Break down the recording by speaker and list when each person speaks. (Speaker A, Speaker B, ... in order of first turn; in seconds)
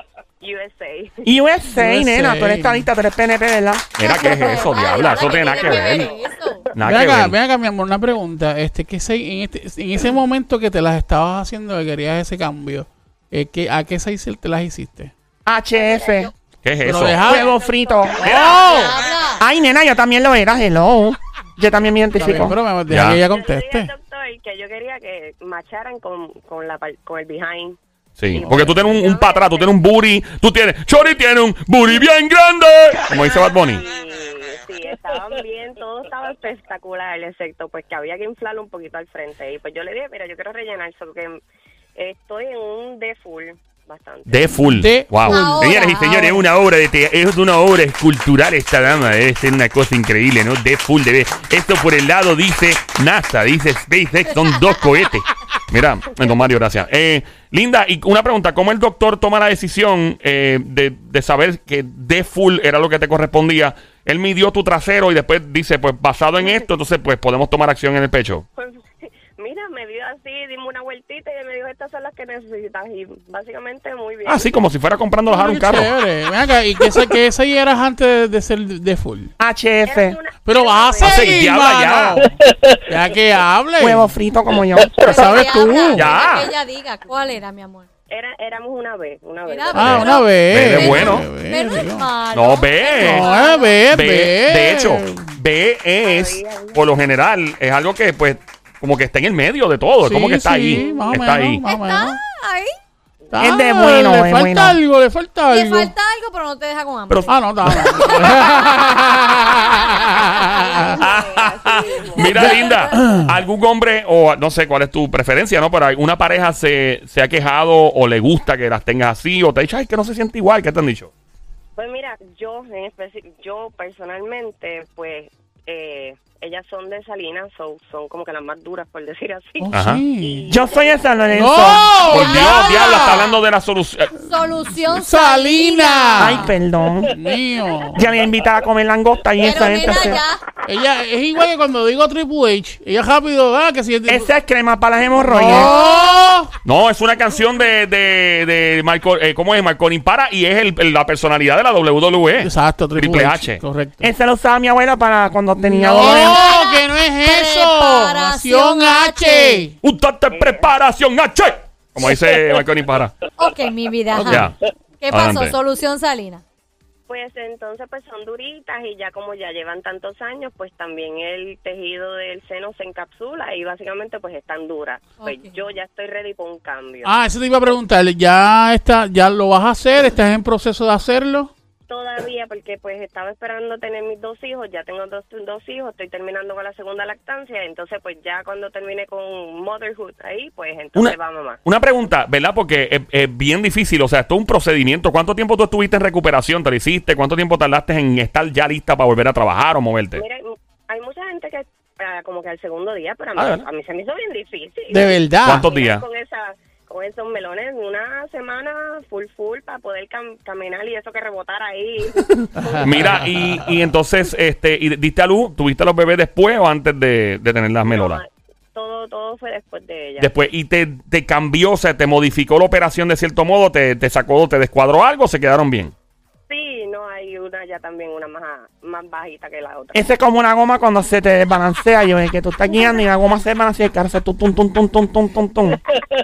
Speaker A: 0.4-1.2, 4.2-6.2, 15.7-16.3, 16.9-19.2, 23.2-27.8, 28.3-29.9, 33.1-41.4, 42.0-44.6, 66.4-66.7, 68.6-68.8, 69.3-74.5, 79.8-81.3, 88.1-90.3, 96.0-97.0, 100.7-101.2, 103.3-103.5, 110.5-112.3, 121.8-133.4, 139.7-140.2, 160.3-160.7, 167.1-177.2, 181.9-191.6, 200.1-213.2, 217.9-220.3, 226.5-230.1
Speaker B: 1.2-3.9, 15.4-16.3, 17.2-18.4, 19.4-22.6, 79.4-80.2, 83.8-85.0, 103.4-104.8, 130.5-132.0, 136.2-137.1, 137.9-140.2, 144.1-145.8, 154.0-156.4, 229.9-235.8
Speaker C: 1.7-2.9, 6.8-15.1, 16.8-17.5, 18.3-18.9, 22.1-23.9, 28.3-28.9, 44.6-45.5, 75.3-79.3, 80.4-84.1, 85.0-86.1, 89.7-92.1, 92.9-95.4, 100.0-102.2, 103.3-105.9, 107.3-111.0, 112.3-113.3, 129.6-130.5, 131.3-132.8, 134.9-136.5, 137.1-138.0, 140.7-144.3, 145.2-146.5, 152.3-154.1, 155.5-159.8, 177.0-181.5, 204.9-205.7, 212.6-213.8
Speaker D: 3.9-6.1, 6.7-7.3, 16.6-17.2, 18.2-18.7, 22.9-23.2, 28.2-33.8, 44.3-68.4, 74.2-75.9, 81.0-82.2, 85.9-86.5, 89.8-91.3, 92.3-93.3, 93.9-101.6, 107.8-108.5, 111.0-121.1, 129.7-130.0, 132.1-134.1, 146.6-153.6, 159.8-163.1, 164.2-164.5, 165.1-165.5, 190.9-200.2, 203.3-203.6, 205.4-206.0, 212.3-218.2, 220.2-225.9
Speaker E: 4.0-6.7, 18.6-19.4, 45.2-46.4, 85.0-87.9, 89.5-93.8, 101.6-102.7, 105.5-110.9, 112.3-113.2, 132.0-133.3, 134.2-136.5, 139.4-140.4, 145.5-146.1, 156.0-159.7, 163.4-166.4, 175.2-175.6